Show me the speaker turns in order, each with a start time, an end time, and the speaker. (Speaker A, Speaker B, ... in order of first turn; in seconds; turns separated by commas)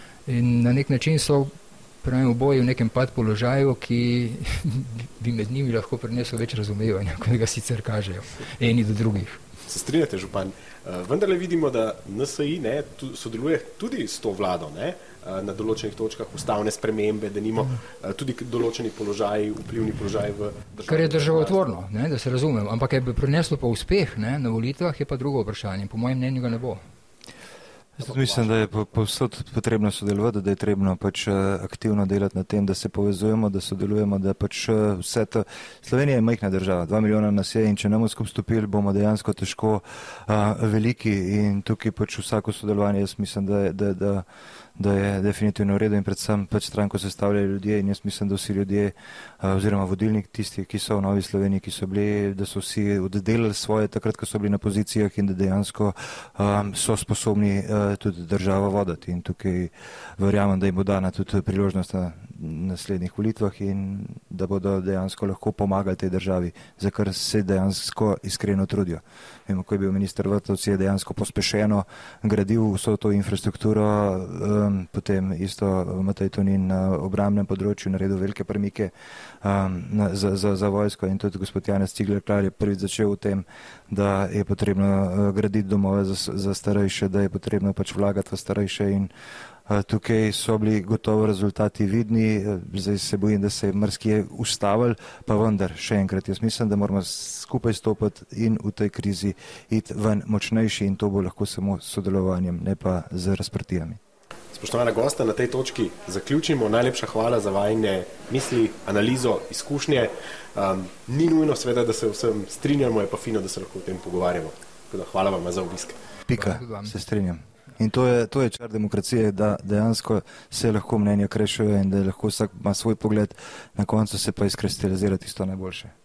Speaker A: 0.2-9.4, Speaker B: 9.7-21.7, Speaker A: 20.9-26.8, Speaker C: 27.9-44.2, Speaker B: 28.2-28.5, Speaker C: 44.8-89.1, Speaker C: 89.7-104.0, Speaker B: 104.5-116.0, Speaker C: 116.3-125.9, Speaker A: 116.3-116.9